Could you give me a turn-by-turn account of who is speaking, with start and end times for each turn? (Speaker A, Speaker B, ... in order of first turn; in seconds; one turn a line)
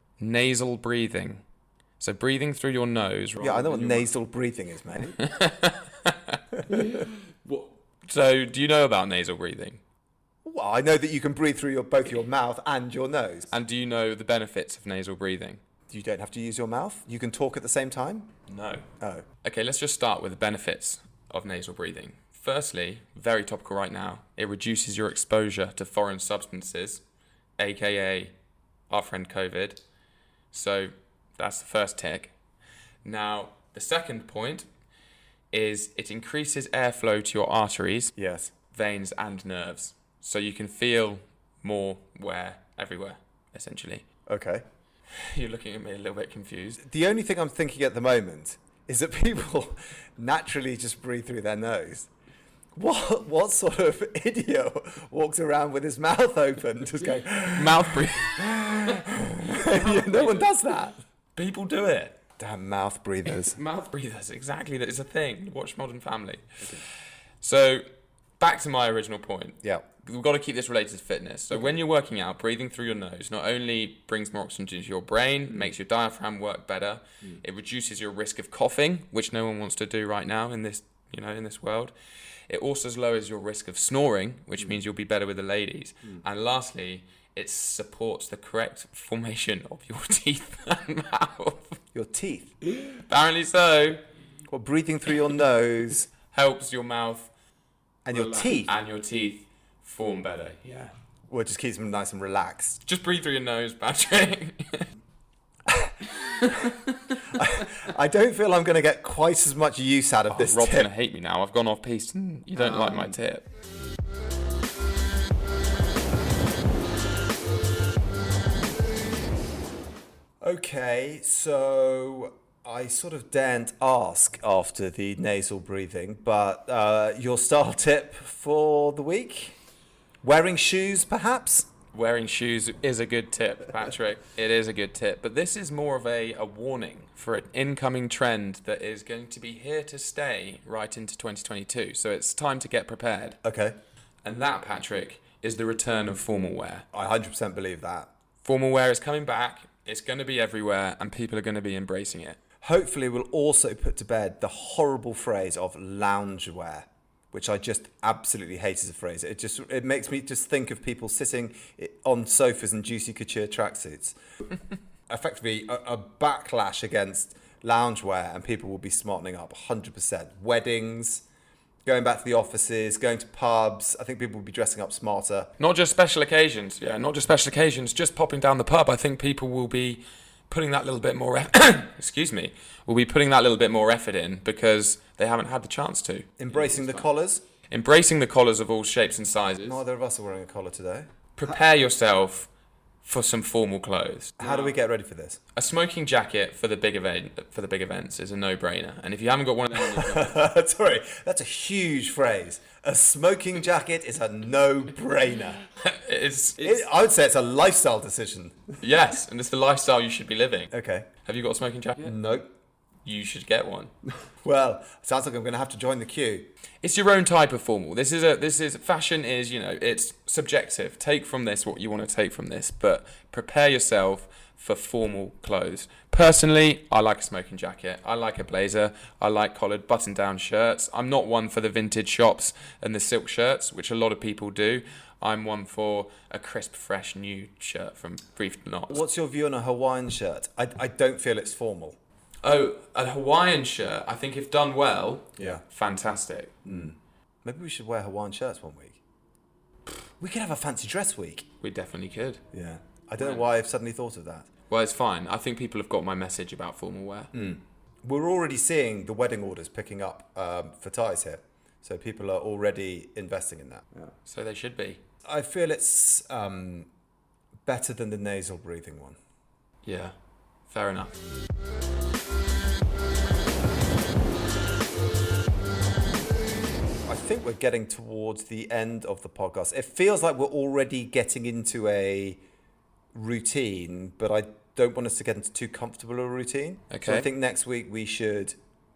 Speaker A: 0.2-1.4
Speaker A: 2.0-4.1
Speaker B: 3.4-5.2
Speaker A: 5.2-9.8
Speaker B: 10.4-13.5
Speaker A: 13.5-15.6
Speaker B: 15.9-18.3
Speaker A: 18.5-18.9
Speaker B: 19.0-19.2
Speaker A: 19.4-27.0
Speaker A: 27.6-28.3
Speaker A: 28.9-29.8
Speaker A: 30.5-32.3
Speaker A: 33.0-34.7
Speaker A: 35.5-38.1
Speaker B: 38.1-38.5
Speaker A: 38.7-44.0
Speaker B: 44.2-44.6
Speaker A: 45.1-46.8
Speaker B: 46.8-52.1
Speaker B: 52.7-61.0
Speaker A: 57.5-60.5
Speaker A: 61.3-62.2
Speaker B: 62.4-63.6
Speaker A: 63.2-66.8
Speaker A: 67.4-67.9
Speaker A: 68.4-81.9
Speaker A: 82.5-91.8
Speaker B: 91.9-92.5
Speaker A: 92.8-94.0
Speaker B: 94.5-96.1
Speaker A: 96.2-97.3
Speaker B: 98.0-98.7
Speaker A: 98.1-100.9
Speaker B: 101.3-102.8
Speaker A: 102.8-104.9
Speaker B: 105.7-106.7
Speaker A: 106.2-107.2
Speaker B: 107.3-110.9
Speaker A: 110.3-113.4
Speaker B: 112.5-113.2
Speaker B: 120.4-129.6
Speaker B: 130.2-131.7
Speaker A: 131.9-143.4
Speaker B: 143.4-143.8
Speaker A: 144.2-146.8
Speaker B: 146.9-148.1
Speaker A: 148.4-152.4
Speaker B: 152.6-164.2
Speaker B: 165.1-171.2
Speaker B: 171.8-175.5
Speaker A: 175.6-187.1
Speaker B: 186.4-187.4
Speaker A: 187.7-189.8
Speaker B: 189.6-191.1
Speaker A: 191.3-192.5
Speaker A: 193.0-194.7
Speaker B: 194.4-195.4
Speaker A: 195.5-200.4
Speaker B: 199.7-205.6
Speaker A: 205.7-206.9
Speaker B: 206.6-208.7
Speaker A: 208.8-210.7
Speaker B: 210.7-211.1
Speaker A: 211.2-212.2
Speaker B: 212.0-212.5
Speaker A: 213.0-213.9
Speaker B: 214.4-216.5
Speaker A: 216.8-239.0
Speaker B: 238.9-242.0
Speaker A: 242.4-246.8
Speaker B: 246.6-249.0
Speaker B: 249.9-251.5
Speaker A: 251.6-252.4
Speaker B: 252.5-254.5
Speaker A: 254.7-257.3
Speaker B: 257.3-264.1
Speaker A: 264.2-265.0
Speaker B: 265.2-266.9
Speaker B: 267.6-269.2
Speaker A: 269.8-270.1
Speaker A: 270.7-271.2
Speaker B: 277.0-282.4
Speaker B: 283.1-288.6
Speaker A: 286.9-287.2